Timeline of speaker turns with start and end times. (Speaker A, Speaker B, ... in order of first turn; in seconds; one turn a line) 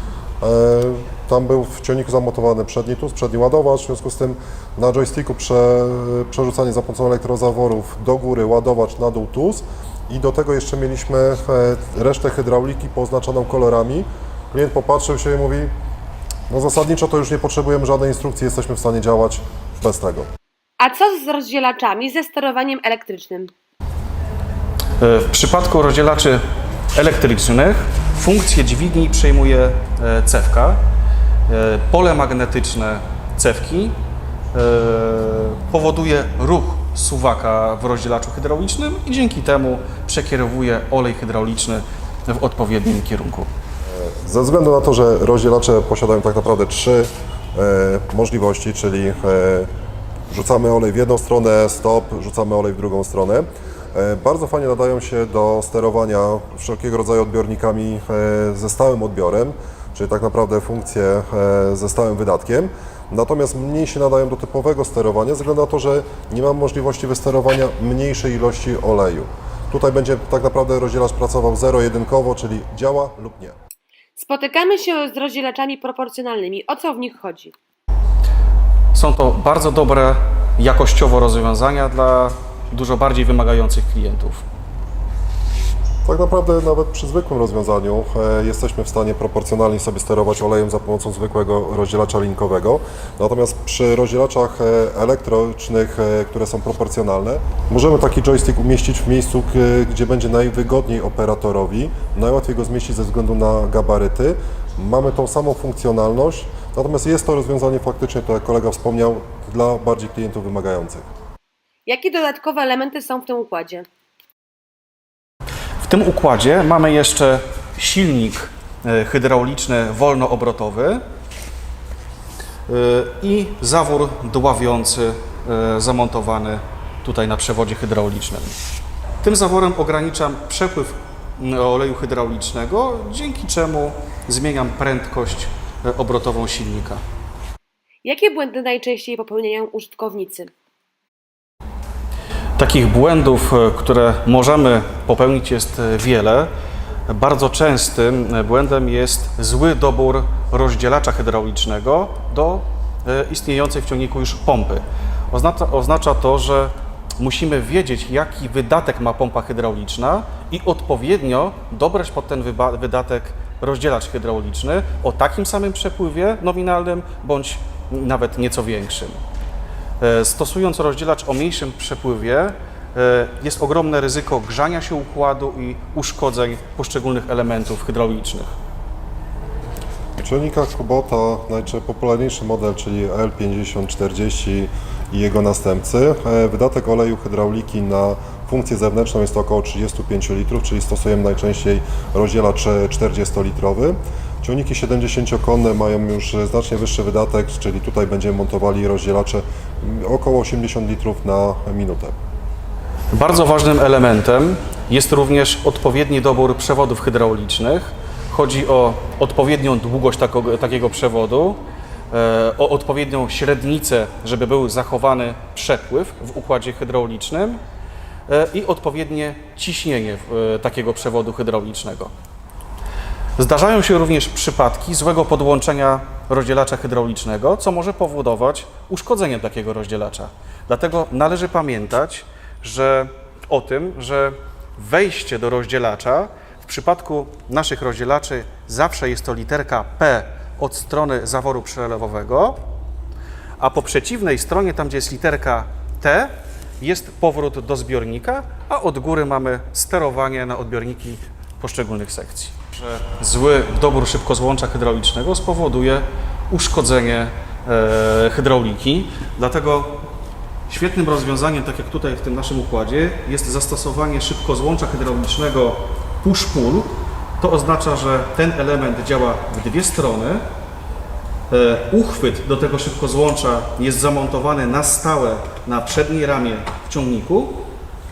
Speaker A: 0.4-15.7
Speaker A: 16.5-20.3
Speaker B: 20.8-23.5
Speaker C: 25.0-26.4
Speaker C: 26.9-30.8
Speaker C: 31.5-34.0
Speaker C: 34.5-43.5
Speaker A: 43.9-49.7
Speaker A: 50.3-73.5
Speaker B: 74.2-77.5
Speaker C: 78.9-84.4
Speaker A: 86.0-111.1
Speaker B: 111.8-113.8
Speaker C: 115.8-121.0
Speaker C: 122.7-128.6
Speaker C: 129.2-137.0
Speaker B: 138.0-140.5
Speaker C: 142.6-146.5
Speaker C: 147.1-169.2
Speaker C: 170.0-178.5
Speaker A: 180.2-202.1
Speaker C: 203.1-211.6
Speaker C: 212.1-217.6
Speaker C: 218.3-222.1
Speaker C: 223.4-242.6
Speaker C: 243.6-260.0
Speaker C: 260.7-270.4
Speaker C: 271.5-277.6